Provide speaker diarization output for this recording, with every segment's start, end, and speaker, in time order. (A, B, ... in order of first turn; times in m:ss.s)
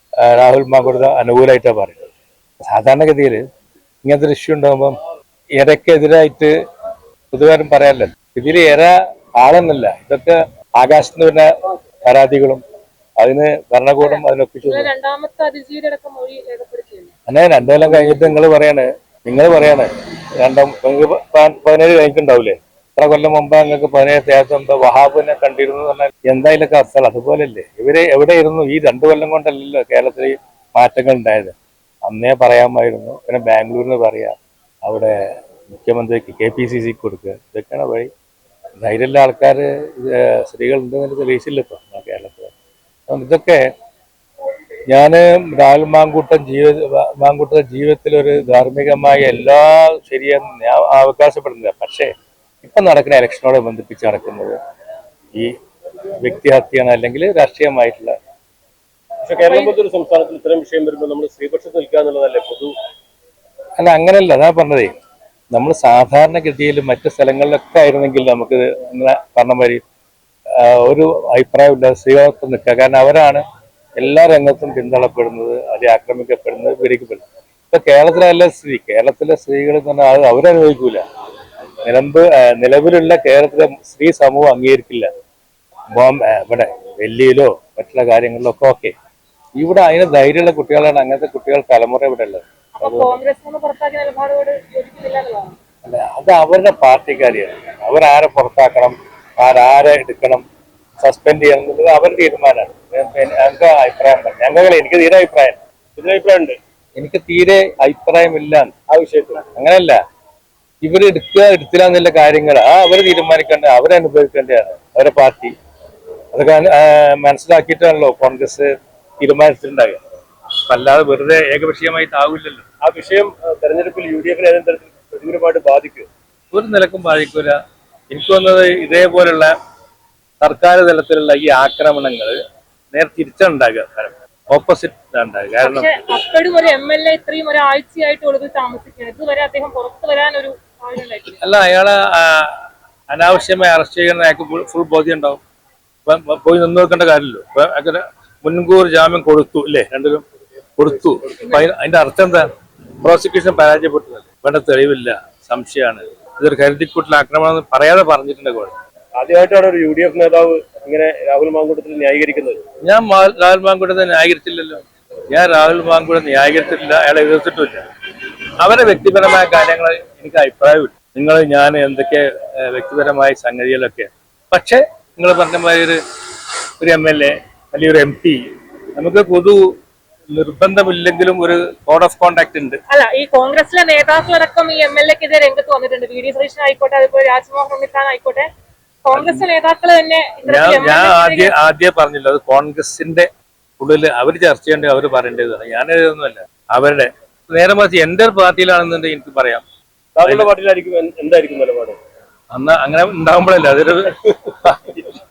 0:00.2-0:02.1 A
0:02.7-0:03.4 A
0:04.0-0:05.0 A
0:05.6-0:06.5 A
0:07.3-0:11.5 A
0:12.1-0:12.6 A
0:13.2-0:14.9 A
0:14.0-0:17.1 B
0:17.3-0:19.9 A
0:20.4-0:31.5 A
0:32.1-0:35.1 A
0:35.7-0:38.1 A
0:38.8-0:42.5 A
0:43.1-0:43.6 A
0:44.9-0:52.1 A
0:52.6-0:54.6 A
0:56.2-0:58.1 A
0:59.3-1:02.7 C
0:59.4-0:59.8 B
1:03.8-1:04.9 A
1:05.5-1:09.8 A
1:10.6-1:13.4 A
1:14.0-1:21.0 A
1:21.9-1:25.1 A
1:26.0-1:28.9 A
1:29.6-1:33.2 A
1:32.8-1:35.6 B
1:35.9-1:40.4 A
1:41.0-1:45.6 A
1:46.0-1:46.6 C
1:47.0-1:48.7 A
1:48.9-1:49.4 C
1:49.5-1:50.0 A
1:50.8-1:55.5 A
1:56.3-1:58.7 A
1:59.2-2:00.0 A
2:00.7-2:02.6 A
2:02.8-2:06.1 C
2:06.5-2:07.6 A
2:08.1-2:09.5 A
2:10.4-2:12.4 A
2:12.9-2:15.9 A
2:15.6-2:21.4 B
2:21.4-2:22.5 A
2:23.1-2:25.4 A
2:26.1-2:30.2 A
2:30.8-2:32.4 A
2:31.1-2:31.6 C
2:33.0-2:38.7 A
2:39.2-2:42.6 C
2:42.8-2:47.8 A
2:48.6-2:56.0 A
2:56.8-2:58.4 A
2:59.0-2:59.6 A
3:00.3-3:02.8 A
3:02.9-3:08.5 B
3:09.0-3:11.5 B
3:09.1-3:09.5 A
3:10.5-3:13.3 A
3:13.8-3:19.6 A
3:20.2-3:22.0 C
3:22.5-3:25.0 A